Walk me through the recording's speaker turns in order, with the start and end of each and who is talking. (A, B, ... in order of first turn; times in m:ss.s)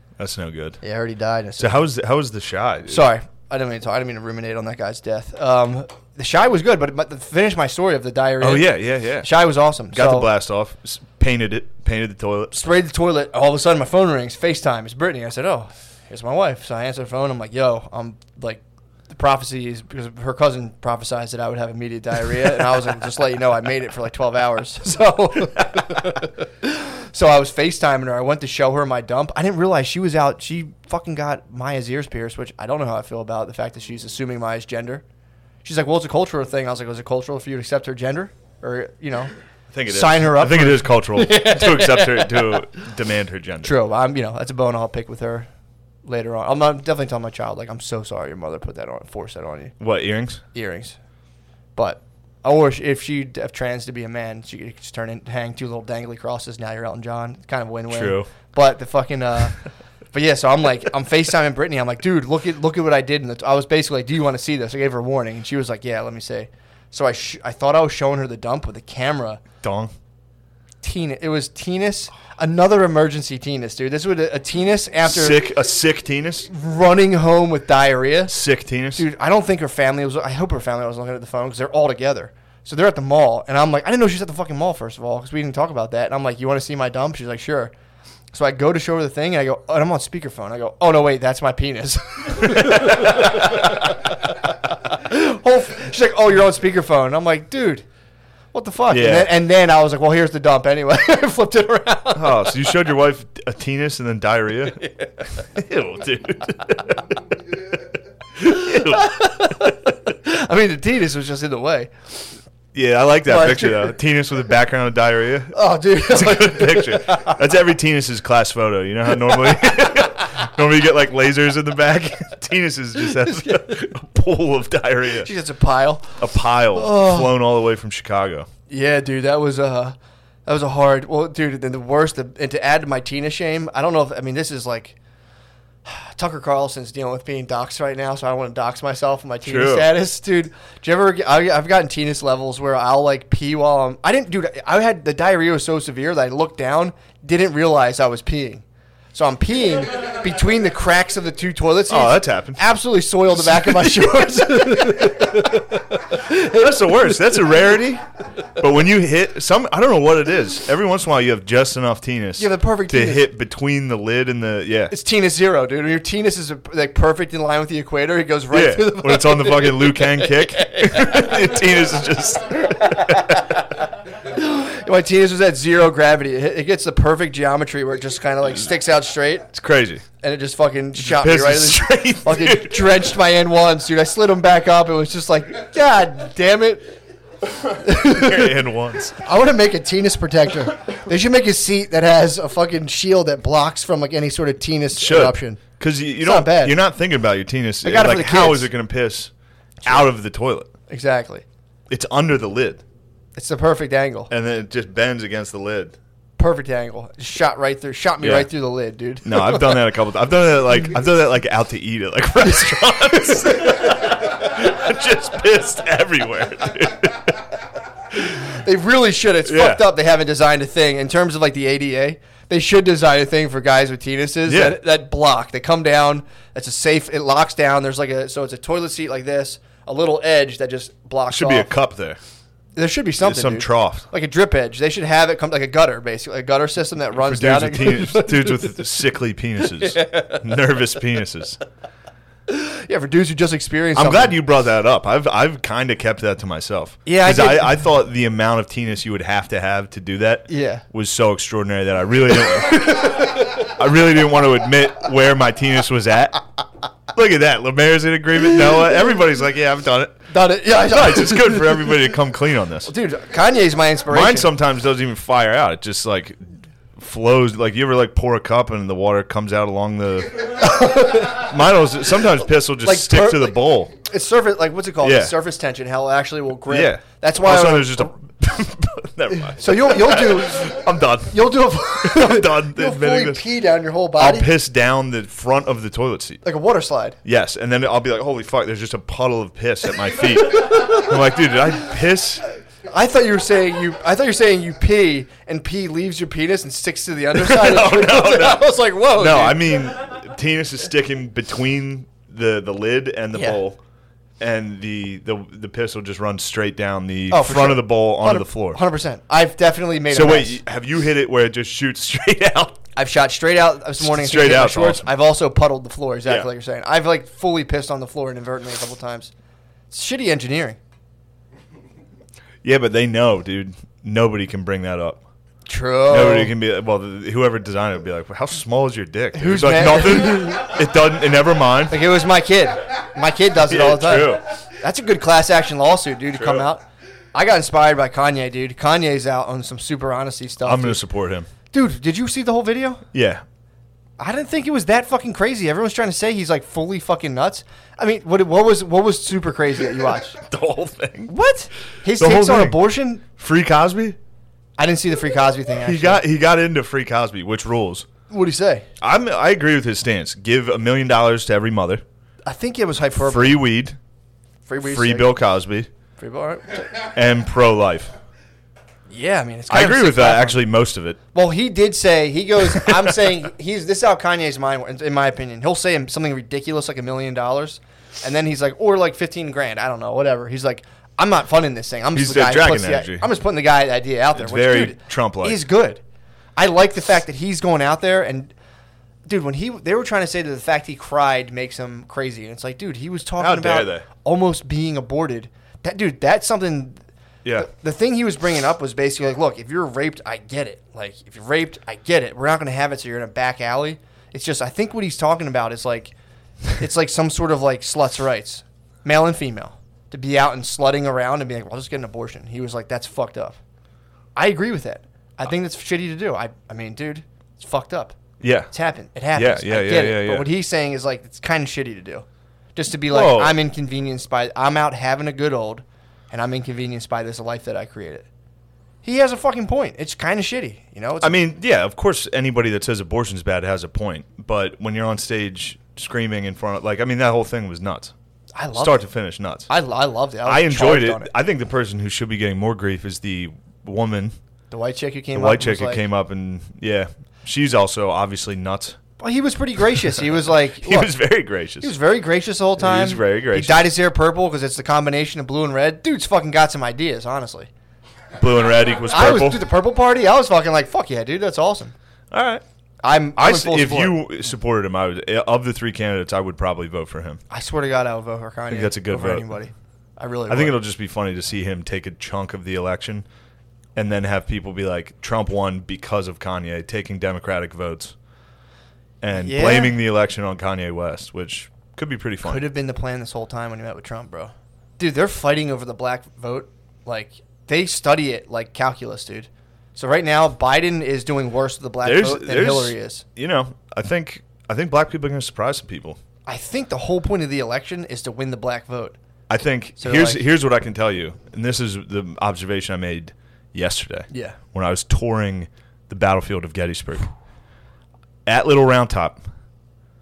0:00.2-0:00.8 A
0:00.8-0:01.8 B
0:01.6-0:03.0 A
0:02.9-0:10.3 B
0:08.4-0:09.3 A
0:09.9-0:12.6 A
0:12.5-0:35.0 B
0:35.6-0:39.3 B
0:39.7-0:43.8 A
0:39.9-0:42.6 B
0:43.6-0:45.5 B
0:46.0-0:49.8 B
0:49.8-0:50.4 A
0:50.5-0:51.0 B
0:51.8-0:59.6 B
0:57.9-0:58.3 A
1:00.1-1:09.4 B
1:09.6-1:09.9 A
1:10.8-1:15.4 B
1:15.1-1:16.5 A
1:16.5-1:18.4 B
1:18.3-1:19.1 A
1:19.0-1:27.7 B
1:28.3-1:37.8 B
1:32.4-1:33.6 A
1:38.5-1:42.5 B
1:38.9-1:39.3 A
1:42.1-1:44.8 A
1:44.8-1:45.1 B
1:45.4-1:47.0 A
1:48.4-1:49.2 A
1:48.4-1:52.4 B
1:52.7-2:05.3 A
1:53.3-1:54.0 B
1:55.5-1:57.4 B
1:59.2-2:00.0 B
2:03.2-2:03.8 B
2:05.1-2:07.3 B
2:06.2-2:08.5 A
2:08.7-2:15.0 B
2:15.8-2:37.4 B
2:19.4-2:19.9 A
2:31.9-2:32.6 A
2:33.4-2:34.0 A
2:36.1-2:38.0 A
2:38.6-2:44.9 A
2:42.4-2:43.3 B
2:44.9-2:51.7 B
2:48.5-2:53.6 A
2:52.6-2:59.5 B
2:59.5-3:00.0 A
3:00.2-3:06.9 B
3:01.0-3:03.0 A
3:07.7-3:15.6 B
3:07.9-3:09.2 A
3:15.0-3:19.3 A
3:16.2-3:16.8 B
3:17.8-3:18.7 B
3:19.8-3:20.7 A
3:20.9-3:21.4 B
3:21.9-3:22.8 A
3:23.4-3:24.3 B
3:24.3-3:26.0 A
3:26.4-3:29.8 B
3:28.2-3:28.5 A
3:29.2-3:37.4 A
3:38.1-3:51.7 B
3:39.4-3:39.9 A
3:44.5-3:44.8 A
3:51.3-3:52.2 A
3:52.8-3:58.8 B
3:53.2-3:54.1 A
3:57.2-4:01.6 A
3:59.8-4:00.4 B
4:02.5-4:04.4 B
4:04.0-4:16.4 A
4:07.1-4:07.7 B
4:10.5-4:10.8 B
4:12.5-4:13.6 B
4:17.1-4:22.9 A
4:20.3-4:22.1 B
4:22.9-4:24.5 B
4:24.1-4:33.9 A
4:30.6-4:31.5 B
4:32.8-4:38.1 B
4:35.0-4:35.4 A
4:36.7-4:43.4 A
4:39.4-4:44.5 B
4:44.2-4:46.4 A
4:46.4-4:47.2 B
4:47.2-4:52.4 A
4:50.6-4:50.9 B
4:52.9-4:59.8 B
4:57.3-5:03.8 A
5:03.4-5:03.6 B
5:04.4-5:08.8 A
5:07.3-5:10.6 B
5:10.1-5:12.8 A
5:13.0-5:19.3 B
5:14.0-5:15.1 A
5:19.9-5:20.8 B
5:22.6-5:25.2 A
5:25.7-5:26.5 B
5:26.1-5:32.0 A
5:29.3-5:30.7 B
5:31.9-5:36.8 B
5:33.7-5:34.4 A
5:36.3-5:36.6 A
5:37.3-5:41.0 B
5:40.6-5:41.5 A
5:41.7-5:43.0 B
5:43.1-5:43.4 A
5:44.2-5:50.4 B
5:50.4-5:51.3 A
5:51.3-5:53.2 B
5:52.2-5:54.2 A
5:54.8-5:56.2 B
5:55.8-5:58.1 A
5:58.3-5:58.9 B
5:59.0-6:02.0 A
6:02.4-6:03.6 B
6:03.2-6:04.0 A
6:04.7-6:05.3 B
6:04.8-6:05.9 A
6:06.2-6:06.9 B
6:07.1-6:08.1 A
6:09.1-6:10.6 B
6:09.7-6:11.2 A
6:11.3-6:26.0 B
6:22.1-6:23.3 A
6:24.4-6:25.6 A
6:26.6-6:28.5 B
6:29.3-6:37.0 B
6:33.4-6:34.1 A
6:37.6-6:46.1 B
6:46.8-6:53.6 B
6:54.4-6:58.2 B
6:58.4-6:58.7 A
6:58.7-7:08.3 B
6:59.3-7:00.5 A
7:03.1-7:03.6 A
7:09.0-7:11.4 B
7:11.2-7:18.1 A
7:18.6-7:19.0 B
7:18.7-7:19.7 A
7:19.7-7:21.3 B
7:20.4-7:24.4 A
7:24.7-7:26.0 B
7:25.3-7:29.0 A
7:29.2-7:31.2 B
7:30.8-7:31.9 A
7:31.8-7:37.7 B
7:32.8-7:33.9 A
7:38.4-7:39.6 A
7:39.1-7:41.9 B
7:42.3-7:42.6 A
7:43.0-7:44.2 B
7:43.4-7:47.4 A
7:47.5-7:50.8 B
7:48.7-7:49.5 A
7:50.5-7:53.2 A
7:54.0-7:58.1 A
7:59.2-8:02.6 A
7:59.3-8:00.0 B
8:02.4-8:13.2 B
8:12.0-8:16.2 A
8:16.5-8:19.2 B
8:19.5-8:27.3 A
8:20.0-8:20.4 B
8:24.3-8:24.6 B
8:28.5-8:29.4 A